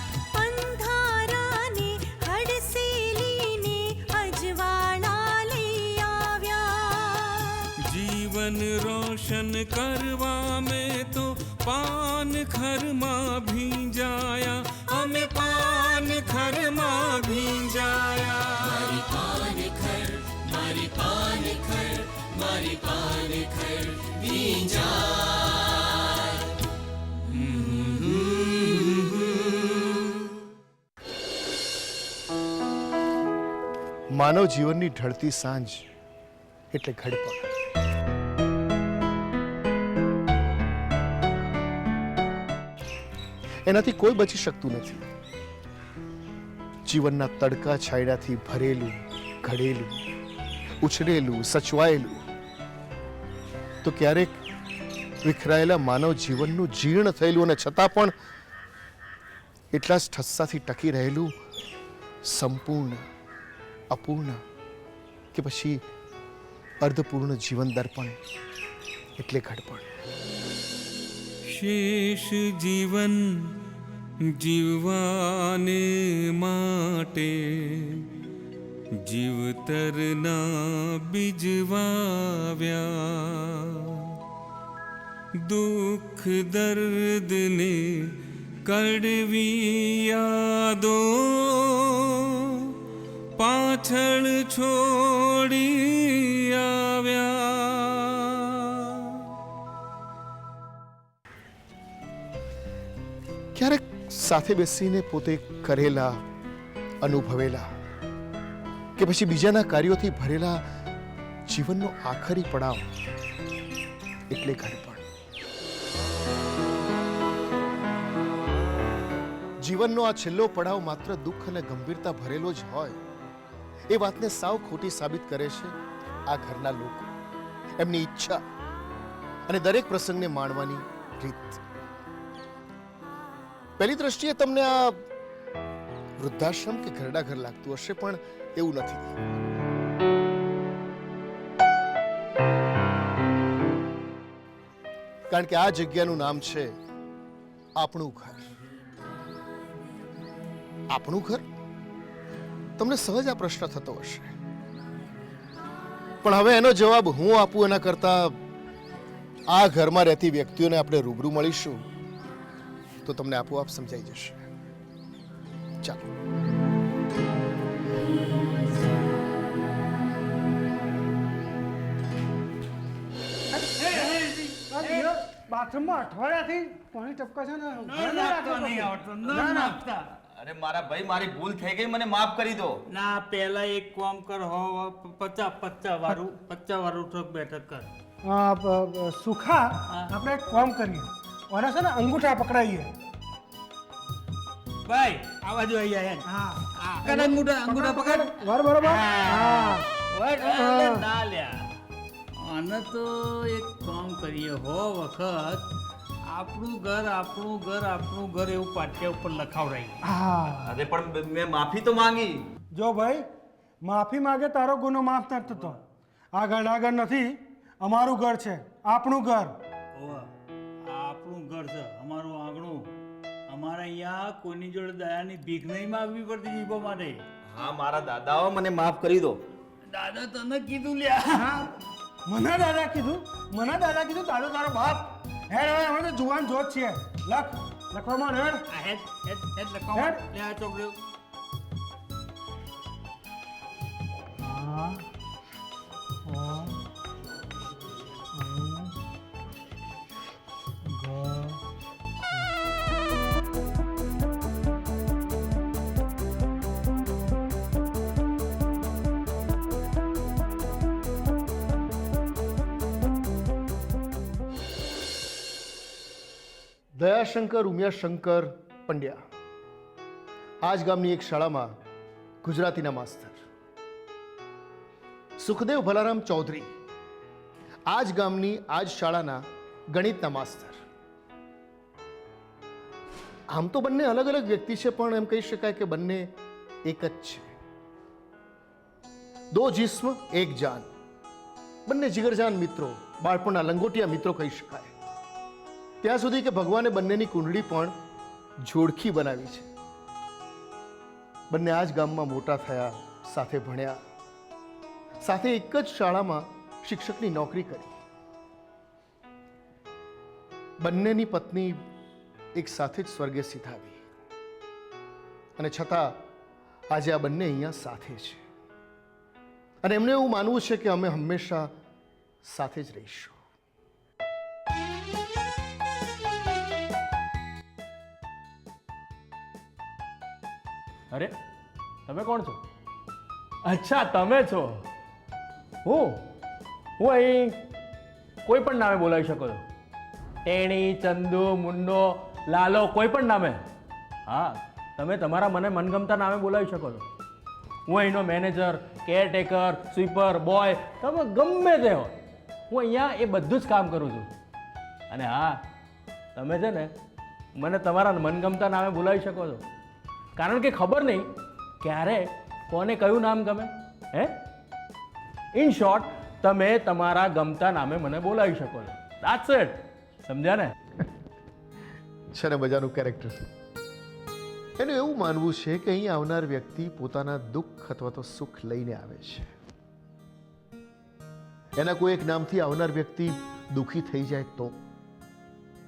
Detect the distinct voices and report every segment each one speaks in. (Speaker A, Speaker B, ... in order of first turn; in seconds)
Speaker A: 0.3-7.7
Speaker B: 7.8-25.0, 27.4-28.9, 71.5-73.4, 74.4-78.0, 79.0-84.1, 85.4-92.7, 93.4-99.2
Speaker C: 34.1-35.8, 36.7-37.5, 43.6-45.1, 46.9-50.0, 50.8-52.2, 53.8-54.4, 55.2-58.1, 59.7-61.3, 62.3-63.0, 63.9-64.4, 65.3-65.8, 66.8-68.2, 69.2-69.9, 103.5-106.2, 107.0-107.7, 109.0-110.6, 111.5-112.9, 114.3-115.1, 119.6-123.0, 123.9-125.8, 126.3-127.1, 127.8-128.4, 129.5-131.6, 133.8-135.0, 136.2-139.1, 145.3-146.7, 147.8-148.5, 150.9-151.4, 152.8-154.3, 156.2-158.3, 159.5-161.8, 163.0-164.4, 267.0-269.2, 270.6-271.7, 272.4-273.4, 275.4-276.7, 277.9-280.8, 283.5-286.3, 286.9-287.5, 289.5-290.9, 291.9-294.9, 296.0-297.9, 298.6-299.7, 301.5-304.0, 305.2-308.0, 310.8-311.8, 312.5-314.0, 315.6-316.2, 316.9-318.4, 319.8-321.7, 322.4-323.4, 372.3-373.4, 374.8-379.5, 381.8-384.8
Speaker D: 173.5-174.1, 174.7-179.7, 188.2-192.9, 196.2-199.8, 200.5-201.0, 210.1-210.7, 212.7-213.3, 213.8-215.8, 216.3-219.6, 232.2-238.6, 239.9-240.2, 244.6-244.9, 248.4-248.9, 251.1-251.5
Speaker E: 173.8-175.1, 177.8-180.1, 182.9-187.9, 194.8-201.6, 202.4-205.6, 206.3-210.0, 219.9-220.3, 220.8-222.9, 223.5-227.2, 229.9-231.6, 238.7-241.0
Speaker F: 180.4-182.7, 210.8-212.3, 227.6-229.3
Speaker G: 332.1-332.6, 333.6-334.8, 335.8-336.2, 337.0-337.6, 338.4-339.6, 340.4-343.6, 344.3-347.0, 347.9-352.1, 352.7-354.3, 355.1-355.6, 356.3-356.9, 357.6-359.6, 360.4-361.3, 361.8-364.4, 365.5-370.7